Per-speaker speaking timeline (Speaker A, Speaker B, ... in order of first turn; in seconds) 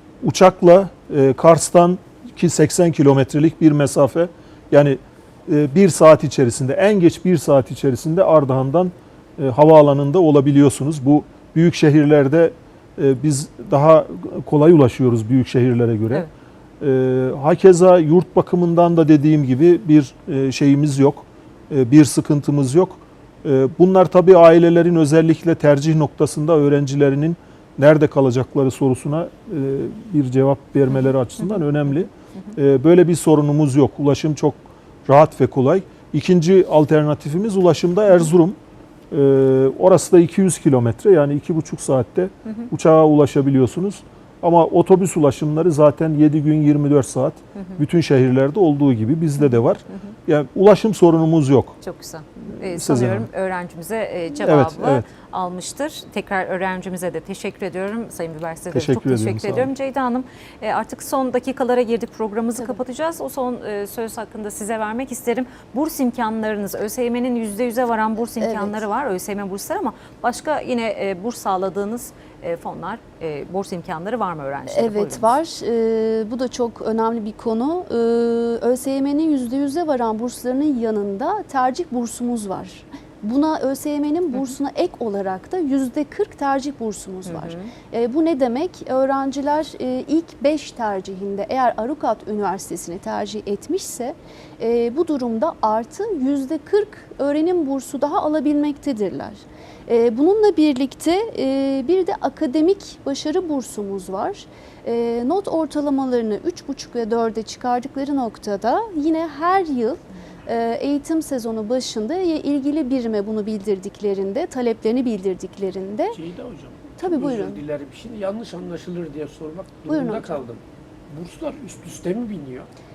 Speaker A: 0.2-16.3, 16.8-38.6, 39.1-51.8, 52.5-53.3, 54.4-55.1, 58.7-59.7
Speaker B: 51.8-75.3, 87.3-87.7
Speaker C: 68.4-68.8, 74.7-116.2, 117.0-117.6, 119.9-120.4
Speaker D: 116.1-122.7